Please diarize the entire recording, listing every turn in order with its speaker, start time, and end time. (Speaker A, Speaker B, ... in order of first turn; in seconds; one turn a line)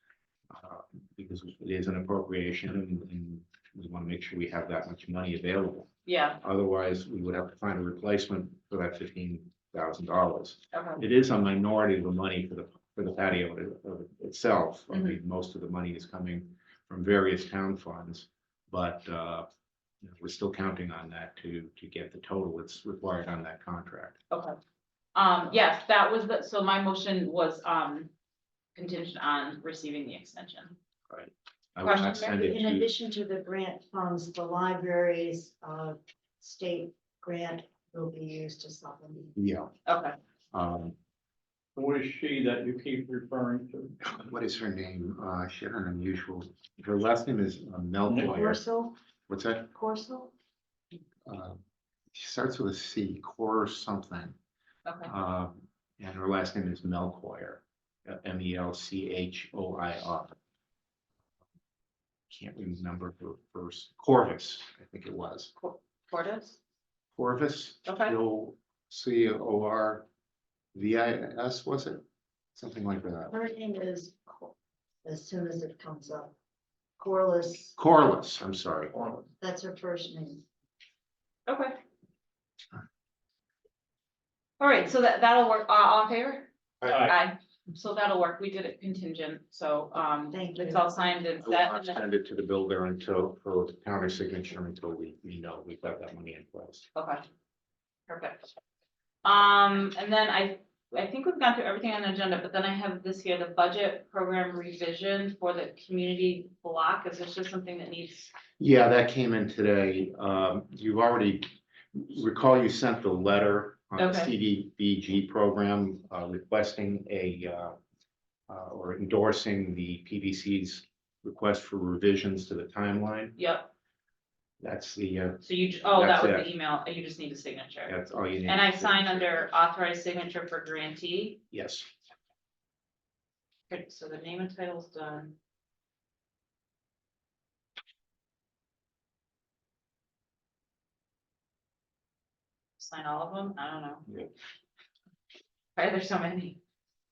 Speaker A: 0.5-5.9
Speaker B: 6.1-6.4
Speaker A: 6.4-19.5
Speaker B: 10.7-11.0
Speaker B: 14.9-15.2
Speaker A: 20.0-24.2
Speaker B: 24.3-24.6
Speaker B: 25.1-28.1
Speaker B: 28.8-30.8
Speaker A: 31.1-32.9
Speaker B: 31.8-32.4
Speaker C: 32.3-39.3
Speaker A: 39.4-39.7
Speaker B: 39.9-40.2
Speaker A: 40.5-41.0
Speaker D: 41.8-44.0
Speaker A: 44.0-48.6
Speaker D: 48.1-48.4
Speaker C: 48.2-49.0
Speaker A: 49.3-49.7
Speaker C: 49.7-50.3
Speaker A: 51.3-51.6
Speaker A: 52.1-54.4
Speaker B: 54.9-55.1
Speaker A: 55.0-60.4
Speaker A: 62.3-65.5
Speaker B: 65.6-66.6
Speaker A: 67.2-70.1
Speaker B: 67.8-68.2
Speaker A: 70.7-72.0
Speaker A: 72.5-73.3
Speaker C: 73.3-76.3
Speaker C: 77.0-77.8
Speaker A: 77.8-79.2
Speaker C: 79.4-80.4
Speaker B: 81.5-81.8
Speaker B: 84.6-92.0
Speaker A: 86.8-87.1
Speaker D: 86.9-87.2
Speaker C: 90.3-91.0
Speaker A: 91.4-96.8
Speaker B: 97.0-97.2
Speaker B: 98.1-98.5
Speaker B: 99.2-108.3
Speaker A: 108.6-117.8
Speaker B: 114.0-114.3
Speaker A: 118.5-123.4
Speaker B: 123.4-123.7
Speaker A: 124.6-126.5
Speaker B: 125.4-127.9
Speaker A: 127.9-129.4
Speaker B: 128.5-131.4
Speaker A: 131.5-131.9
Speaker B: 133.7-135.3
Speaker B: 142.8-144.1
Speaker B: 145.8-146.6